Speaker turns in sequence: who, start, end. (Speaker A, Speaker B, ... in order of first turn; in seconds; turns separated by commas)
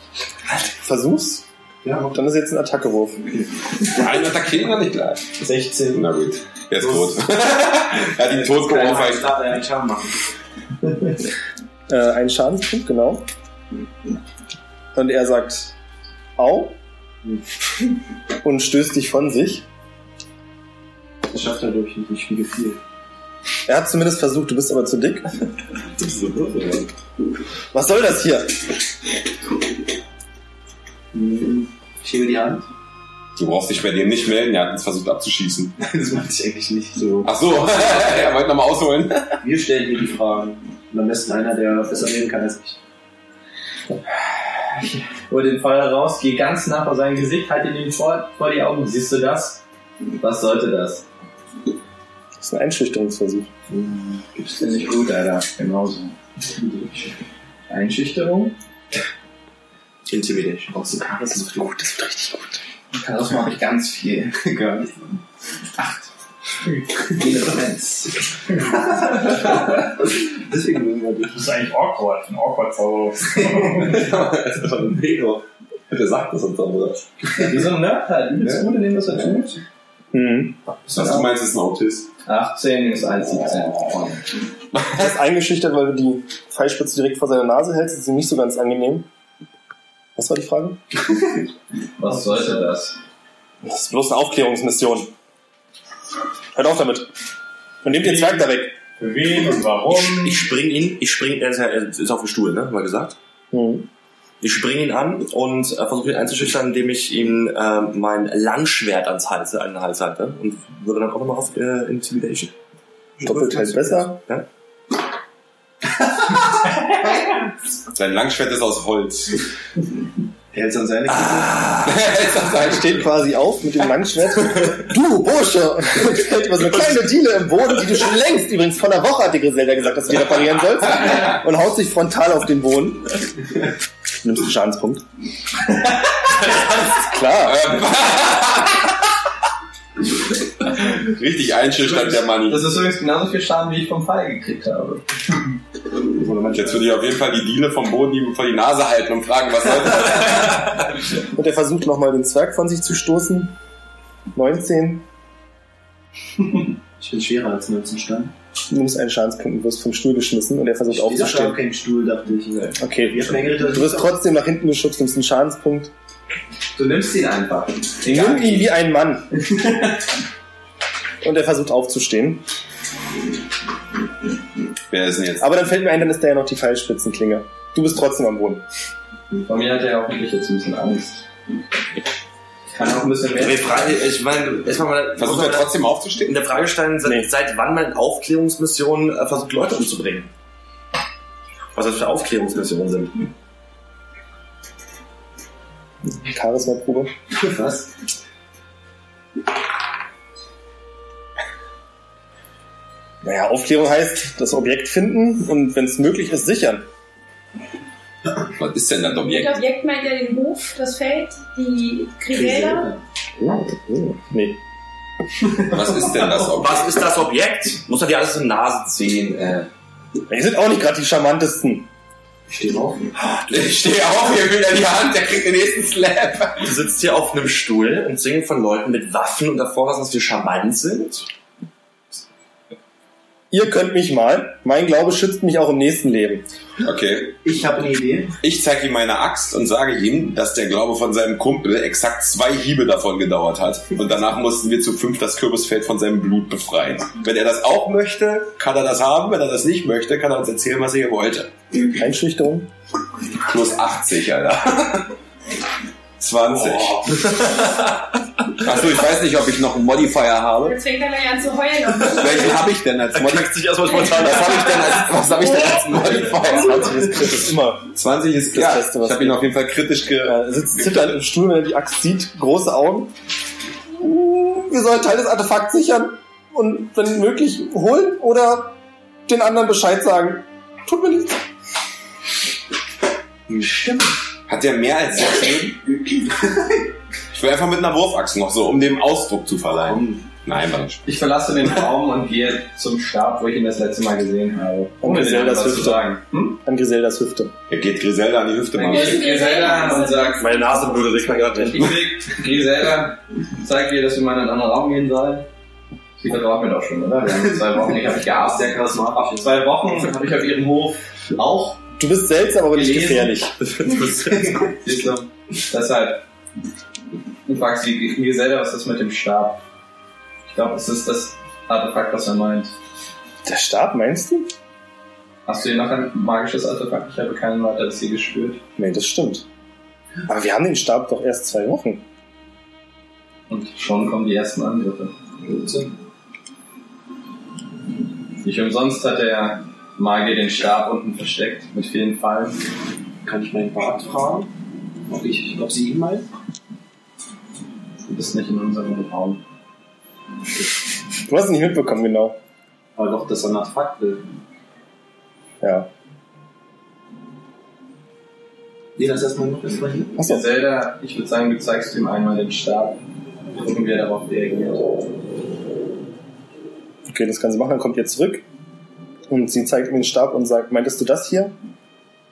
Speaker A: 0.5-1.4, Speaker B: 1.8-2.2, Speaker A: 2.1-3.3, Speaker C: 3.9-5.3, Speaker B: 5.4-5.9, Speaker C: 5.9-9.4, Speaker B: 6.8-7.2, Speaker B: 8.2-10.2, Speaker A: 11.9-13.3, Speaker A: 14.9-15.7, Speaker A: 16.4-16.8, Speaker A: 18.4-19.6, Speaker B: 21.3-22.8, Speaker A: 23.6-25.3, Speaker B: 26.1-26.8, Speaker A: 27.7-28.6, Speaker B: 31.1-32.7, Speaker C: 33.4-35.7, Speaker B: 35.8-38.3, Speaker C: 37.2-39.4, Speaker B: 39.4-42.8, Speaker D: 45.3-49.6, Speaker D: 50.2-51.0, Speaker A: 52.4-53.5, Speaker B: 53.7-54.2, Speaker D: 54.3-56.1, Speaker B: 56.5-57.1, Speaker D: 57.7-58.5, Speaker E: 60.1-60.9, Speaker B: 60.7-61.7, Speaker A: 61.2-62.6, Speaker D: 62.9-65.0, Speaker D: 67.1-68.2, Speaker B: 68.7-71.5, Speaker F: 71.3-74.0, Speaker E: 73.9-75.4, Speaker C: 74.0-74.5, Speaker C: 75.9-77.0, Speaker D: 77.4-79.6, Speaker C: 78.4-78.7, Speaker A: 80.1-80.5, Speaker C: 80.9-82.1, Speaker D: 80.9-81.3, Speaker D: 82.2-84.1, Speaker C: 84.7-85.1, Speaker A: 84.9-89.1, Speaker A: 90.2-90.8, Speaker D: 92.0-93.0, Speaker A: 93.6-95.1, Speaker A: 96.5-97.1, Speaker A: 97.8-98.8, Speaker F: 97.9-100.5, Speaker E: 99.9-103.2, Speaker A: 103.5-103.9, Speaker E: 104.4-112.5, Speaker E: 113.2-114.4, Speaker A: 113.2-114.2, Speaker C: 117.9-119.4, Speaker B: 120.5-121.6, Speaker E: 121.0-122.0, Speaker C: 121.8-123.1, Speaker A: 122.6-133.2, Speaker A: 134.2-135.0, Speaker A: 136.9-137.8, Speaker C: 137.4-138.9, Speaker C: 140.8-142.7, Speaker D: 141.8-145.0, Speaker B: 146.1-146.9, Speaker C: 146.5-150.8, Speaker A: 151.3-153.6, Speaker A: 154.3-155.0, Speaker B: 157.0-158.3, Speaker A: 158.7-161.6, Speaker B: 160.9-164.1, Speaker A: 162.8-165.9, Speaker D: 166.7-168.7, Speaker A: 168.0-169.3, Speaker D: 169.5-169.8, Speaker A: 171.2-172.4, Speaker C: 174.9-175.5, Speaker A: 175.4-178.6, Speaker D: 179.4-181.2, Speaker D: 182.7-184.0, Speaker E: 183.3-190.3, Speaker C: 185.2-186.3, Speaker A: 187.0-187.3, Speaker E: 191.7-193.3, Speaker A: 196.0-197.1, Speaker B: 197.3-197.9, Speaker A: 203.2-206.9, Speaker C: 208.5-209.6, Speaker G: 209.2-212.9, Speaker B: 212.3-213.0, Speaker A: 213.4-214.6, Speaker C: 215.6-217.0, Speaker E: 216.4-219.7, Speaker A: 220.3-221.9, Speaker B: 222.5-223.1, Speaker C: 223.4-226.7, Speaker E: 226.6-231.3, Speaker A: 233.5-236.4, Speaker C: 236.8-237.4, Speaker B: 237.4-238.3, Speaker C: 238.4-251.5, Speaker A: 251.9-252.7, Speaker C: 253.4-255.1, Speaker C: 256.2-257.6, Speaker E: 256.5-257.9, Speaker C: 258.6-260.8, Speaker G: 260.6-262.7, Speaker C: 262.1-267.2, Speaker E: 263.1-265.1, Speaker A: 266.2-267.9, Speaker C: 267.9-271.1, Speaker A: 268.5-269.5, Speaker A: 270.2-273.1, Speaker A: 273.9-278.8, Speaker A: 279.3-281.4, Speaker C: 284.5-286.0, Speaker C: 287.3-291.0, Speaker B: 289.7-290.2, Speaker D: 291.0-296.6, Speaker A: 295.0-296.1, Speaker A: 296.6-297.5, Speaker C: 297.7-299.6, Speaker D: 298.7-300.6, Speaker G: 298.8-301.3, Speaker E: 300.4-302.0, Speaker D: 301.6-305.5, Speaker D: 306.2-311.8, Speaker B: 308.2-309.5, Speaker A: 312.0-313.5, Speaker D: 312.7-313.4, Speaker E: 313.6-314.6, Speaker B: 314.3-314.6, Speaker D: 314.8-316.2, Speaker D: 317.5-319.6, Speaker D: 320.5-322.7, Speaker A: 323.4-324.5, Speaker D: 325.4-328.6, Speaker A: 328.8-329.4, Speaker A: 330.3-332.0, Speaker D: 333.5-335.1, Speaker B: 335.4-335.9, Speaker D: 338.4-342.6, Speaker B: 343.2-344.5, Speaker B: 345.1-346.3, Speaker D: 348.1-349.4, Speaker A: 351.2-352.4, Speaker B: 352.9-354.2, Speaker A: 355.6-355.9, Speaker B: 358.9-360.2, Speaker A: 360.2-360.5, Speaker D: 360.2-363.0, Speaker D: 363.6-364.9, Speaker A: 367.1-368.4, Speaker A: 369.3-371.5